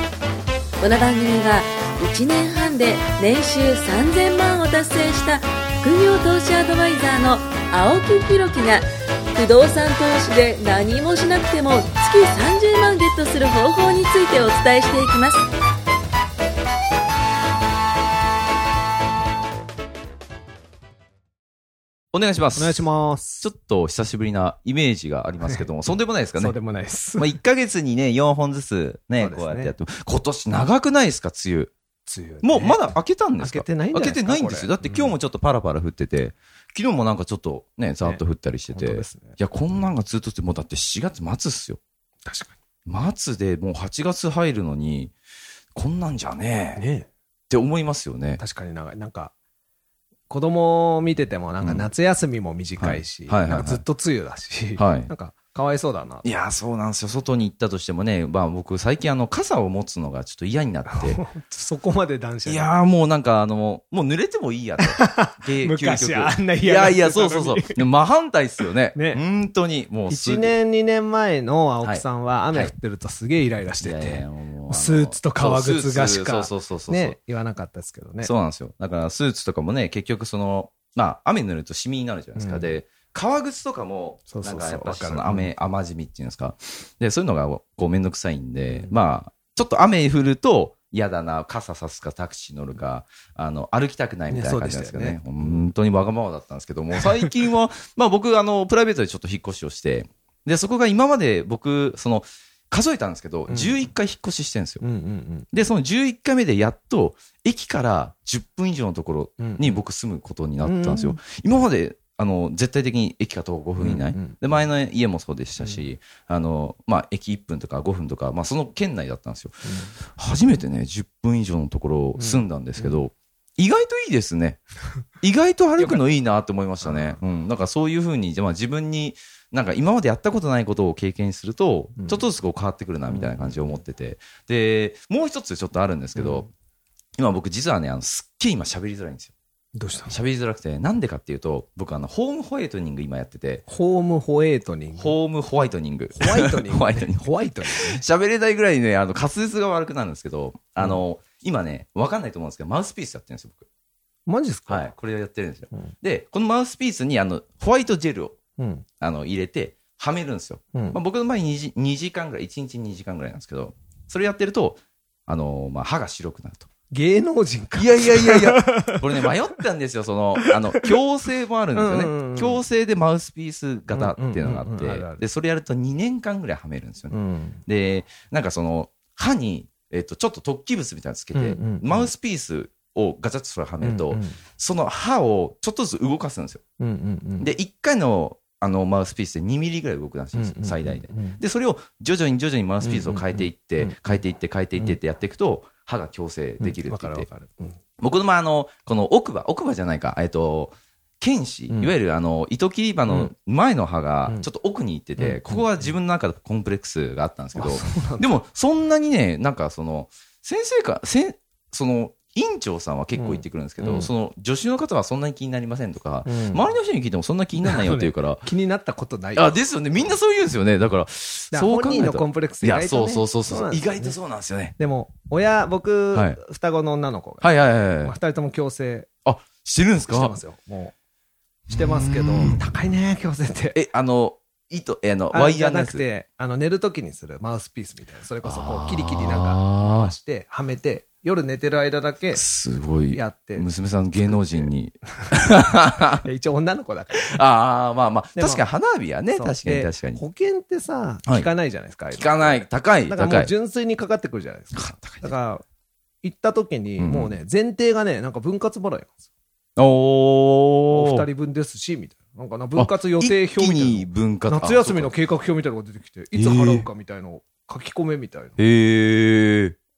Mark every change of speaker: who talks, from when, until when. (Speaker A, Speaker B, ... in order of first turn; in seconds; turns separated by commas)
Speaker A: 0.8-15.4, Speaker B: 22.1-22.8, Speaker C: 22.6-23.5, Speaker B: 23.4-26.6, Speaker C: 26.4-27.4, Speaker B: 27.2-31.7, Speaker C: 29.2-29.8, Speaker C: 32.0-32.9, Speaker B: 32.4-41.8, Speaker C: 33.4-35.2, Speaker C: 38.0-39.4, Speaker C: 42.2-42.6, Speaker B: 42.9-45.1, Speaker B: 45.8-46.8, Speaker C: 46.8-47.1, Speaker B: 47.5-48.4, Speaker C: 48.4-49.3, Speaker C: 50.3-56.2, Speaker B: 51.6-51.9, Speaker B: 52.8-53.8, Speaker B: 54.8-55.1, Speaker B: 56.2-61.2, Speaker C: 60.9-62.7, Speaker B: 62.5-70.6, Speaker C: 64.8-67.8, Speaker C: 68.9-69.2, Speaker C: 70.1-78.3, Speaker B: 71.8-72.7, Speaker B: 73.8-77.2, Speaker B: 78.2-104.8, Speaker C: 82.4-82.8, Speaker C: 84.3-85.5, Speaker C: 88.7-89.0, Speaker C: 94.3-95.7, Speaker C: 103.5-103.9, Speaker C: 104.8-105.5, Speaker B: 105.5-124.6, Speaker C: 109.4-109.8, Speaker C: 110.6-111.2, Speaker C: 113.8-114.4, Speaker C: 115.6-115.9, Speaker C: 119.7-119.9, Speaker C: 122.2-123.0, Speaker B: 125.2-136.5, Speaker C: 125.8-126.0, Speaker C: 126.8-127.2, Speaker C: 132.0-132.2, Speaker C: 133.1-133.8, Speaker C: 136.1-136.5, Speaker B: 137.2-139.3, Speaker C: 139.8-140.2, Speaker B: 140.1-143.6, Speaker C: 143.7-145.2, Speaker B: 144.9-153.7, Speaker C: 146.1-148.0, Speaker C: 154.3-154.9, Speaker B: 154.7-158.4, Speaker C: 158.6-158.9, Speaker B: 159.0-166.7, Speaker C: 160.7-161.0, Speaker C: 166.9-169.3, Speaker B: 167.8-177.2, Speaker C: 170.4-170.9, Speaker C: 171.7-172.6, Speaker C: 173.9-175.2, Speaker C: 177.1-177.6, Speaker B: 177.7-186.6, Speaker C: 181.3-182.1, Speaker C: 183.8-184.4, Speaker C: 186.8-187.5, Speaker B: 187.4-197.3, Speaker C: 190.3-191.4, Speaker C: 192.8-194.2, Speaker C: 196.6-197.8, Speaker B: 198.0-218.4, Speaker C: 205.2-205.9, Speaker C: 207.6-208.3, Speaker C: 213.2-214.1, Speaker C: 216.3-216.7, Speaker C: 217.6-220.1, Speaker B: 219.3-224.8, Speaker C: 221.5-224.2, Speaker C: 224.8-229.1, Speaker B: 226.1-226.4, Speaker B: 227.4-228.2, Speaker B: 229.2-230.4, Speaker C: 230.1-230.9, Speaker C: 231.7-233.8, Speaker B: 231.7-232.6, Speaker B: 233.7-236.0, Speaker C: 235.3-242.4, Speaker B: 238.4-240.1, Speaker B: 242.3-246.2, Speaker C: 243.1-243.7, Speaker C: 244.3-244.7, Speaker C: 246.2-247.4, Speaker B: 247.2-250.2, Speaker C: 248.4-248.7, Speaker C: 249.3-255.6, Speaker B: 252.1-253.5, Speaker B: 254.7-255.3, Speaker C: 256.2-259.2, Speaker B: 257.0-257.3, Speaker B: 259.8-261.3, Speaker C: 260.9-268.6, Speaker B: 262.8-265.1, Speaker B: 266.3-266.9, Speaker B: 268.6-269.8